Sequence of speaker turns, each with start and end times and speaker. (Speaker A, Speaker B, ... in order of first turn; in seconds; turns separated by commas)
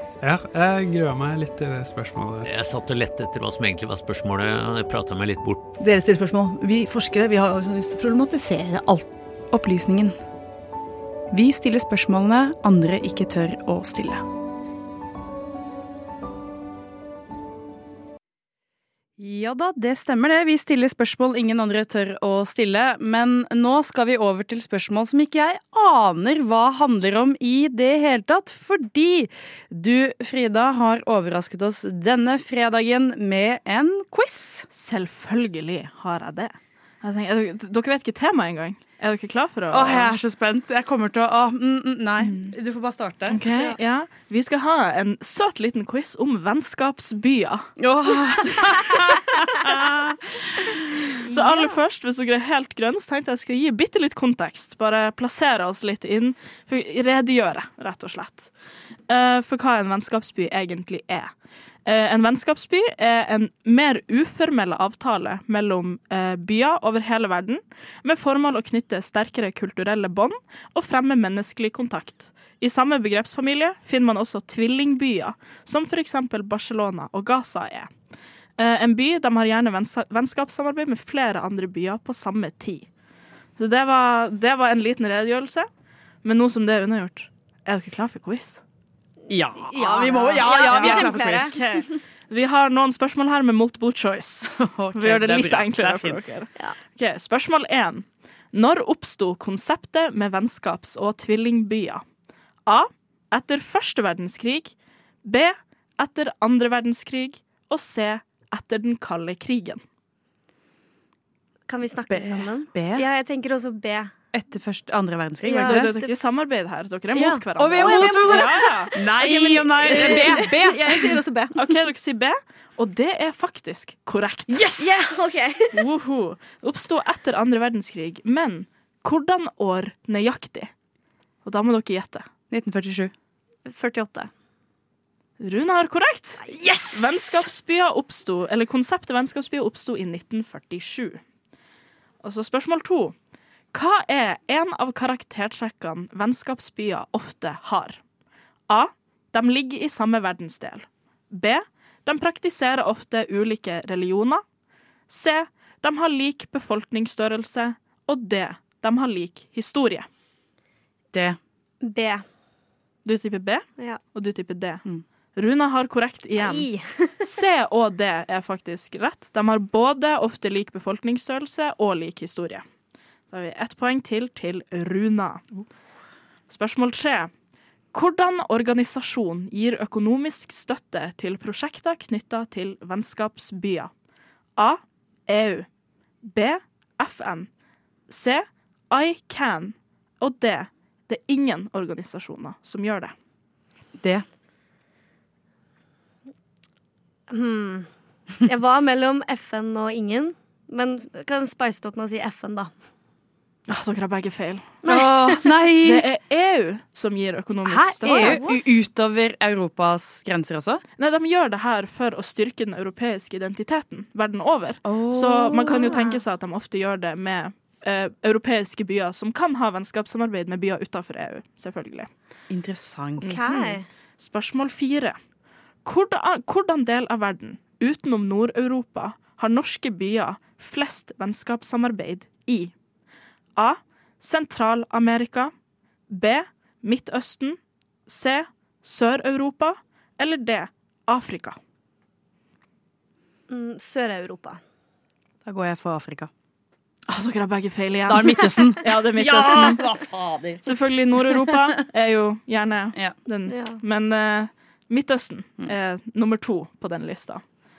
Speaker A: 0.2-2.5, Speaker B: 2.4-5.6, Speaker C: 5.8-9.1, Speaker D: 9.5-10.2, Speaker D: 11.3-14.2, Speaker D: 19.2-34.7, Speaker E: 34.7-40.1, Speaker D: 39.7-43.4, Speaker E: 42.2-42.5, Speaker E: 43.3-47.7, Speaker D: 47.8-51.1, Speaker F: 51.3-51.7, Speaker E: 51.3-58.5, Speaker E: 59.1-61.3, Speaker E: 61.9-77.9, Speaker E: 78.6-82.9, Speaker E: 83.6-85.7, Speaker E: 86.2-88.6, Speaker D: 89.3-91.6, Speaker F: 89.6-91.9, Speaker E: 90.4-102.0, Speaker D: 94.4-96.2, Speaker E: 102.7-109.8, Speaker F: 111.7-114.1, Speaker D: 112.1-113.0, Speaker D: 114.3-115.9, Speaker F: 115.5-116.2, Speaker E: 115.6-118.9, Speaker F: 117.1-121.6, Speaker D: 117.6-121.2, Speaker E: 119.9-120.3, Speaker E: 121.5-124.7, Speaker D: 124.5-125.6, Speaker F: 124.8-125.7, Speaker E: 125.7-130.7, Speaker E: 131.4-132.3, Speaker D: 132.5-133.1, Speaker F: 133.7-134.3, Speaker E: 135.4-141.2, Speaker F: 136.5-136.9, Speaker E: 142.2-143.2, Speaker E: 143.7-148.0, Speaker E: 148.7-154.4, Speaker E: 155.1-160.1, Speaker D: 161.1-161.4, Speaker F: 161.8-162.2, Speaker E: 163.1-164.8, Speaker E: 165.4-166.7, Speaker F: 166.4-167.3, Speaker E: 167.2-172.7, Speaker E: 173.3-175.6, Speaker E: 176.5-177.3, Speaker E: 177.9-183.9, Speaker E: 184.6-185.7, Speaker E: 186.2-187.5, Speaker E: 188.1-193.1, Speaker D: 194.0-194.2, Speaker F: 197.3-197.9, Speaker F: 198.4-202.7, Speaker E: 203.7-204.8, Speaker F: 204.8-205.5, Speaker D: 204.9-206.1, Speaker E: 205.8-208.5, Speaker D: 207.6-210.8, Speaker F: 208.2-208.6, Speaker E: 211.0-222.1, Speaker D: 214.8-215.9, Speaker D: 222.5-223.4, Speaker E: 223.2-225.2, Speaker F: 223.3-223.9, Speaker E: 225.8-232.7, Speaker E: 233.6-235.5, Speaker E: 236.1-241.6, Speaker F: 243.5-244.6, Speaker D: 245.4-246.3, Speaker E: 247.1-249.9, Speaker D: 248.1-250.7, Speaker E: 250.6-257.4, Speaker F: 253.5-253.8